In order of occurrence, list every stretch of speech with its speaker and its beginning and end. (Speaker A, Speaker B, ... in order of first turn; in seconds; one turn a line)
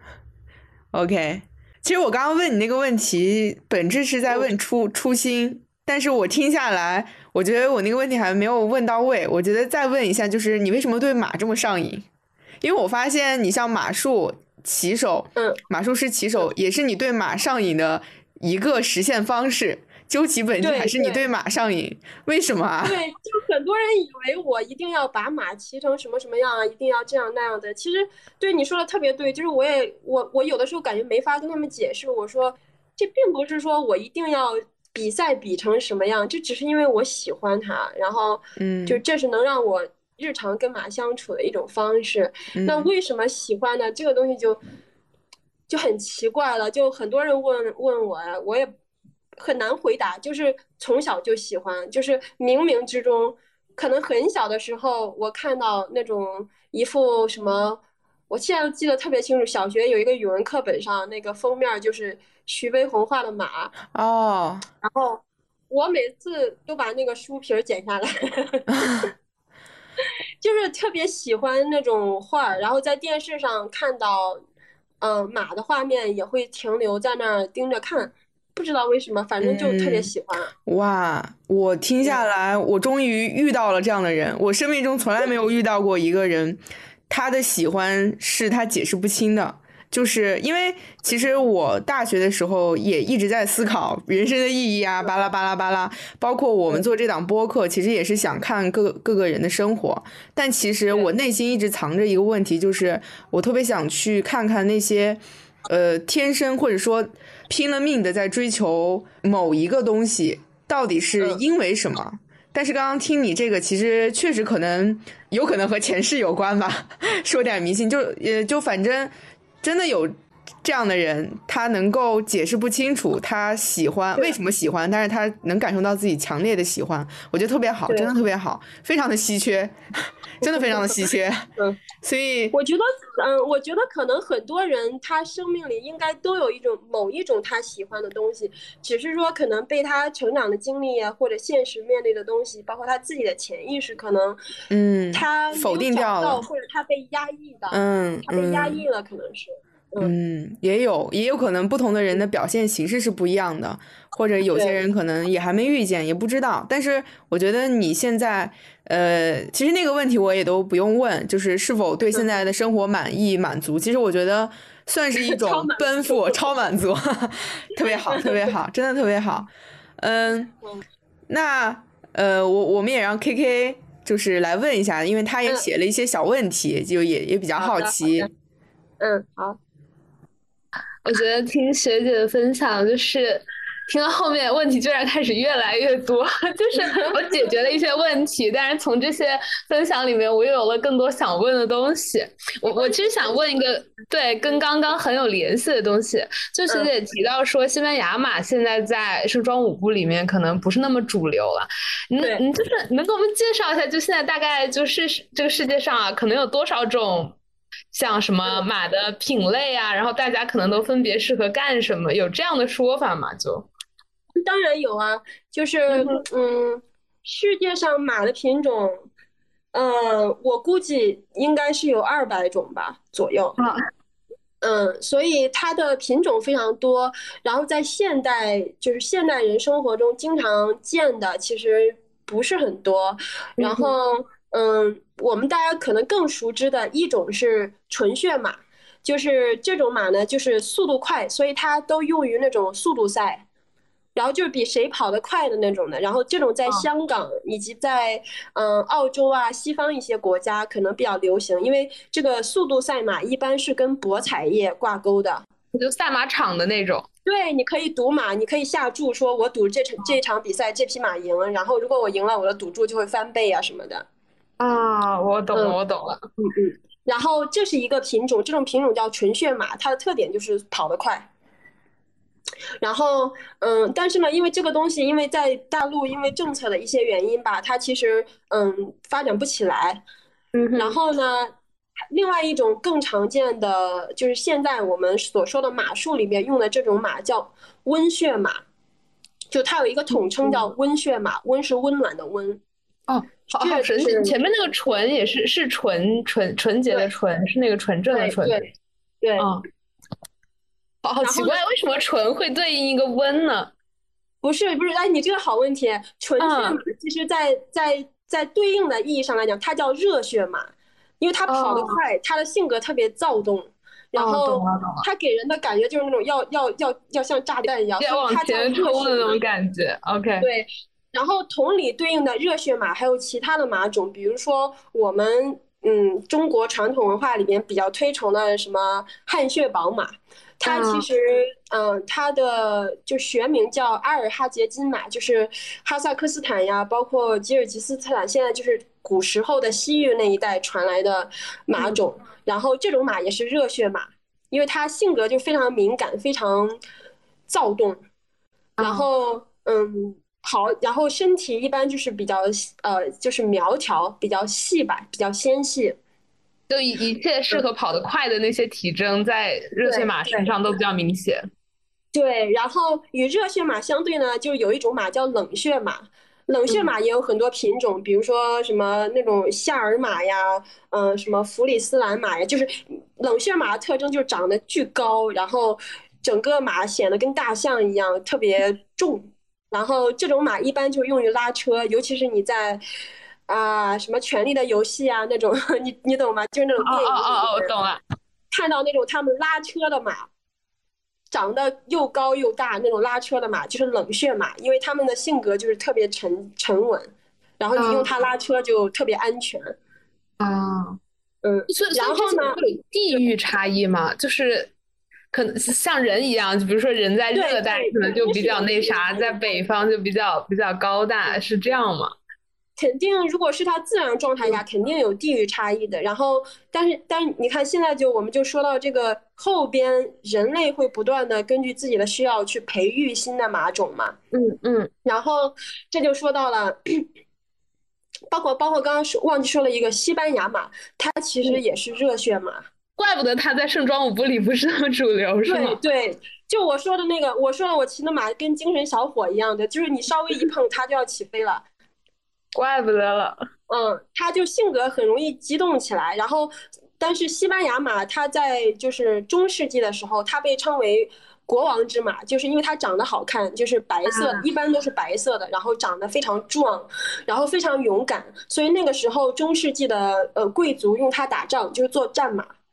Speaker A: 0.9-12.1
Speaker A: 12.6-22.9
Speaker B: 15.3-15.6
Speaker B: 20.6-21.2
Speaker B: 22.8-44.6
Speaker A: 38.6-39.0
Speaker A: 42.5-42.9
Speaker B: 45.7-48.7
Speaker B: 49.4-63.7
Speaker A: 63.9-64.6
Speaker B: 64.8-68.9
Speaker A: 68.8-69.1
Speaker B: 70.4-74.4
Speaker B: 75.0-80.5
Speaker A: 79.4-80.1
Speaker A: 80.7-131.5
Speaker B: 130.4-131.8
Speaker A: 132.0-132.5
Speaker B: 132.5-144.4
Speaker A: 144.7-146.4
Speaker B: 145.1-150.1
Speaker A: 147.7-148.8
Speaker A: 150.0-170.5
Speaker B: 154.5-154.8
Speaker B: 165.2-166.5
Speaker B: 168.1-168.5
Speaker A: 171.3-178.3
Speaker B: 177.6-178.3
Speaker B: 179.0-179.6
Speaker C: 181.0-207.4
Speaker B: 186.7-187.4
Speaker B: 192.6-193.4
Speaker C: 207.9-213.7
Speaker B: 214.4-219.0
Speaker C: 215.9-216.2
Speaker B: 219.7-223.6
Speaker B: 224.6-243.4
Speaker C: 233.6-233.9
Speaker B: 244.1-255.5
Speaker C: 255.7-257.1
Speaker B: 257.2-264.1
Speaker C: 264.6-266.2
Speaker B: 265.5-265.8
Speaker B: 266.4-271.3
Speaker B: 272.8-280.0
Speaker C: 280.5-281.0
Speaker B: 280.8-281.5
Speaker B: 282.1-288.6
Speaker B: 289.5-292.6
Speaker C: 293.1-298.6
Speaker B: 293.5-294.3
Speaker B: 298.1-298.7
Speaker B: 299.2-299.5
Speaker C: 299.4-299.6
Speaker C: 301.0-303.7
Speaker B: 301.2-301.6
Speaker B: 304.4-319.4
Speaker C: 306.4-306.8
Speaker C: 311.5-312.0
Speaker C: 314.2-315.0
Speaker C: 318.0-320.5
Speaker B: 320.4-346.8
Speaker C: 330.6-331.1
Speaker B: 347.5-348.0
Speaker C: 348.8-349.1
Speaker B: 348.8-356.0
Speaker C: 356.7-361.4
Speaker B: 359.8-360.5
Speaker B: 362.1-382.8
Speaker B: 383.5-387.7
Speaker C: 386.8-388.0
Speaker B: 388.5-390.3
Speaker B: 391.3-397.1
Speaker B: 397.6-399.7
Speaker C: 397.8-398.1
Speaker C: 400.4-401.0
Speaker B: 401.4-402.6
Speaker C: 401.7-404.7
Speaker C: 405.3-412.1
Speaker B: 407.3-409.5
Speaker B: 412.8-424.1
Speaker C: 424.3-424.9
Speaker B: 425.0-427.0
Speaker B: 428.3-432.6
Speaker C: 433.0-435.8
Speaker B: 435.5-441.6
Speaker C: 442.5-443.4
Speaker B: 443.7-462.5
Speaker C: 454.1-454.4